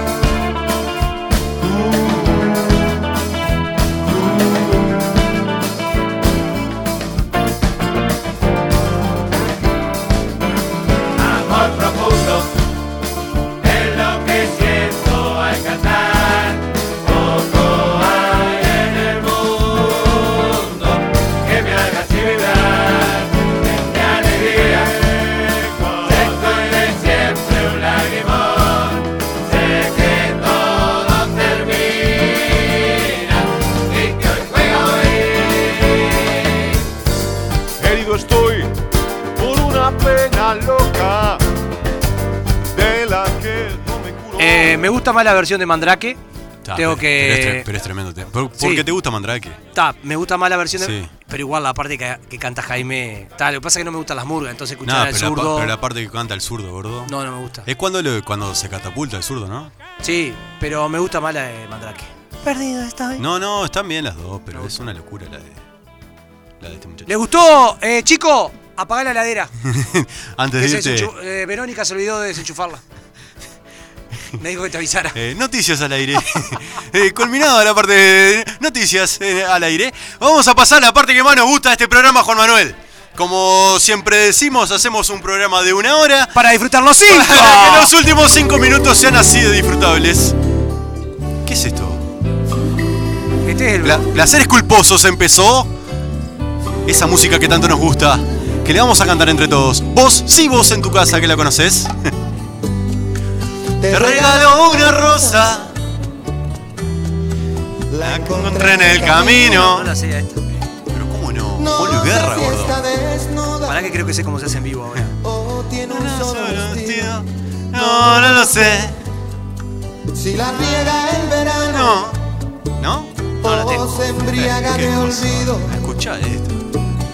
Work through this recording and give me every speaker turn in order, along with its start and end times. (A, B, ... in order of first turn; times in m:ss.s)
0:37.8-0:38.7 A
0:39.4-0:41.4 A
0:42.7-0:44.9 A
0:44.4-0:46.2 B
0:46.6-0:49.6 C
0:46.8-0:47.7 B
0:48.6-0:48.9 B
0:49.7-0:55.7 B
0:50.8-0:51.1 C
0:54.8-0:57.1 C
0:57.1-0:57.7 B
0:57.6-0:59.7 C
1:00.0-1:03.2 B
1:03.2-1:05.6 C
1:06.6-1:07.1 C
1:07.1-1:09.5 B
1:09.6-1:11.1 C
1:10.6-1:12.8 B
1:14.4-1:15.2 B
1:15.1-1:26.4 C
1:26.4-1:27.9 B
1:27.0-1:30.4 C
1:31.4-1:32.1 C
1:33.4-1:34.2 B
1:33.8-1:35.7 C
1:36.8-1:42.1 C
1:43.8-1:45.7 C
1:47.9-1:49.9 C
1:49.0-1:50.4 B
1:50.9-1:53.0 C
1:53.6-1:55.2 B
1:55.7-1:59.0 C
2:00.5-2:02.2 C
2:02.8-2:03.5 C
2:03.4-2:04.2 B
2:04.2-2:06.7 C